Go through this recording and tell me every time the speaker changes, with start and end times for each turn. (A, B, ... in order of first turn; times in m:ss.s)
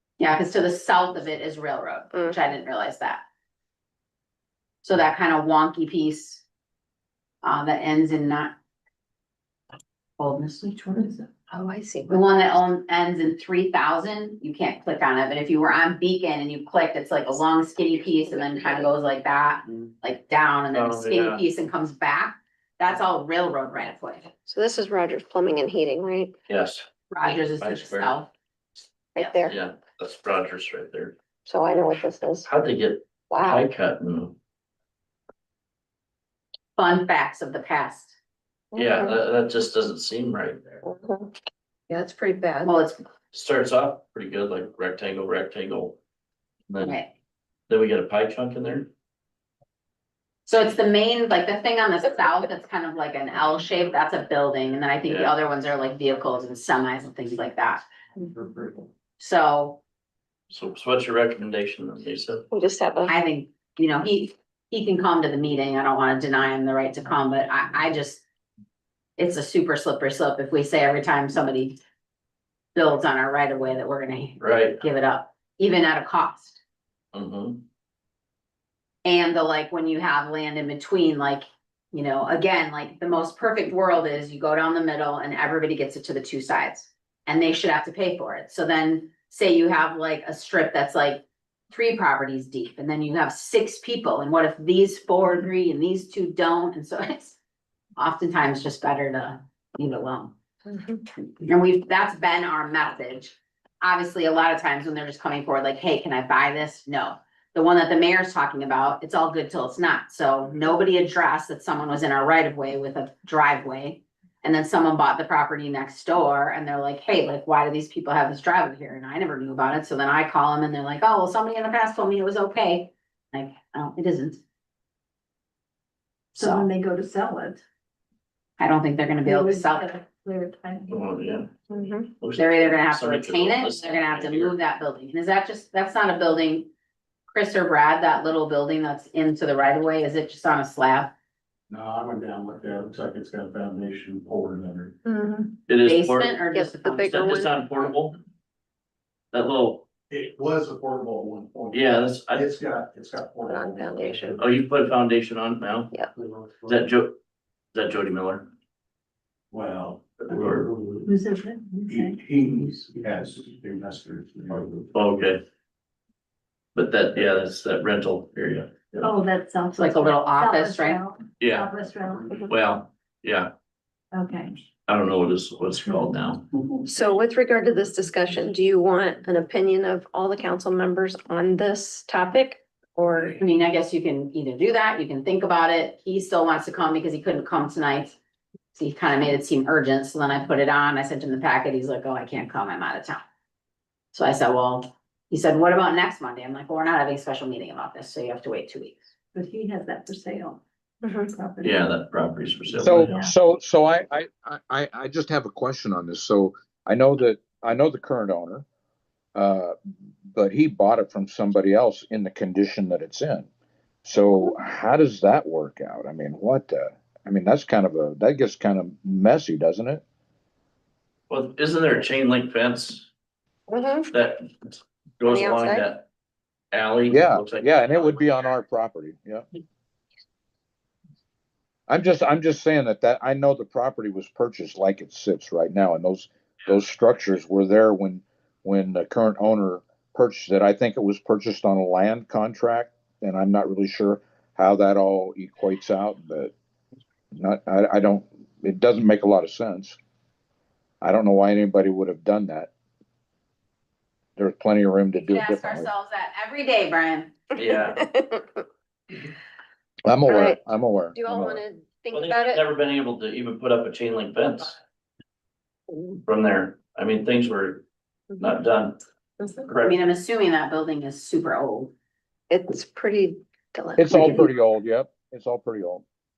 0:00.2-0:03.2 A
0:04.8-0:06.4 A
0:07.4-0:08.6 A
0:10.2-0:11.3 A
0:11.5-0:12.2 B
0:12.1-0:24.3 A
0:20.7-0:21.4 C
0:24.4-0:26.4 B
0:26.5-0:28.2 C
0:27.1-0:28.3 A
0:29.1-0:29.6 B
0:29.5-0:31.2 C
0:31.4-0:32.5 B
0:32.5-0:34.4 C
0:33.3-0:33.6 B
0:36.8-0:38.2 A
0:38.7-0:39.2 B
0:38.7-0:40.8 C
0:40.8-0:41.3 B
0:41.9-0:42.8 B
0:42.6-0:43.0 A
0:43.3-0:46.0 C
0:46.7-0:47.0 C
0:46.8-0:47.1 A
0:47.7-0:48.9 C
0:50.4-0:57.8 A
0:55.1-0:55.4 C
0:59.2-0:59.8 A
1:00.5-1:02.5 C
1:02.5-1:03.1 B
1:03.1-1:08.2 A
1:09.2-1:11.8 A
1:12.7-1:16.6 A
1:14.4-1:14.8 C
1:17.1-1:17.6 C
1:19.0-1:37.4 A
1:38.0-1:40.3 A
1:40.7-1:41.0 B
1:41.4-2:04.4 A
2:06.3-2:07.6 D
2:06.4-2:06.6 A
2:08.6-2:09.9 A
2:09.2-2:11.0 D
2:10.9-2:11.5 C
2:11.7-2:12.1 B
2:12.2-2:14.6 C
2:12.4-2:16.7 A
2:17.3-2:21.1 A
2:21.7-2:25.0 E
2:25.0-2:25.6 B
2:25.7-2:26.4 C
2:25.8-2:27.4 A
2:26.5-2:27.5 B
2:27.1-2:28.2 C
2:29.3-2:29.9 C
2:30.1-2:34.4 E
2:31.7-2:32.5 C
2:33.4-2:34.4 B
2:34.4-2:35.9 C
2:36.2-2:36.8 E
2:36.6-2:37.2 C
2:37.7-2:38.5 C
2:39.5-2:41.1 E
2:40.2-2:40.7 C
2:41.0-2:42.2 D
2:41.8-2:44.9 E
2:44.9-2:45.4 C
2:46.7-2:49.1 C
2:49.0-2:52.3 D
2:49.8-2:51.0 A
2:51.4-2:51.7 C
2:52.5-2:53.5 C
2:54.1-2:54.6 D
2:54.9-2:56.5 C
2:56.8-3:03.4 B
3:03.4-3:08.2 A
3:08.7-3:13.2 A
3:14.1-3:19.0 A
3:19.3-3:20.6 D
3:21.0-3:21.3 B
3:21.2-3:21.9 D
3:21.6-3:23.1 C
3:22.7-3:28.6 F
3:22.9-3:23.3 D
3:29.3-3:29.8 F
3:30.3-3:33.5 F
3:34.0-3:40.0 F
3:41.3-3:43.1 C
3:43.7-3:44.1 B
3:44.1-3:46.0 C
3:45.2-3:45.9 B
3:46.7-3:48.5 C
3:47.1-3:49.4 F
3:51.9-4:06.5 F
4:07.3-4:10.0 F
4:11.0-4:12.7 F
4:14.4-4:15.9 F
4:15.2-4:17.4 A
4:17.5-4:18.0 C
4:17.7-4:18.6 B
4:20.0-4:21.6 F
4:20.2-4:20.6 B
4:21.1-4:22.6 B
4:22.1-4:24.8 C
4:25.9-4:26.2 B
4:26.2-4:27.8 C
4:28.3-4:28.6 B
4:28.4-4:29.0 C
4:29.4-4:29.7 B
4:29.7-4:30.0 C
4:29.8-4:31.9 A
4:32.5-4:34.5 B
4:34.0-4:36.0 F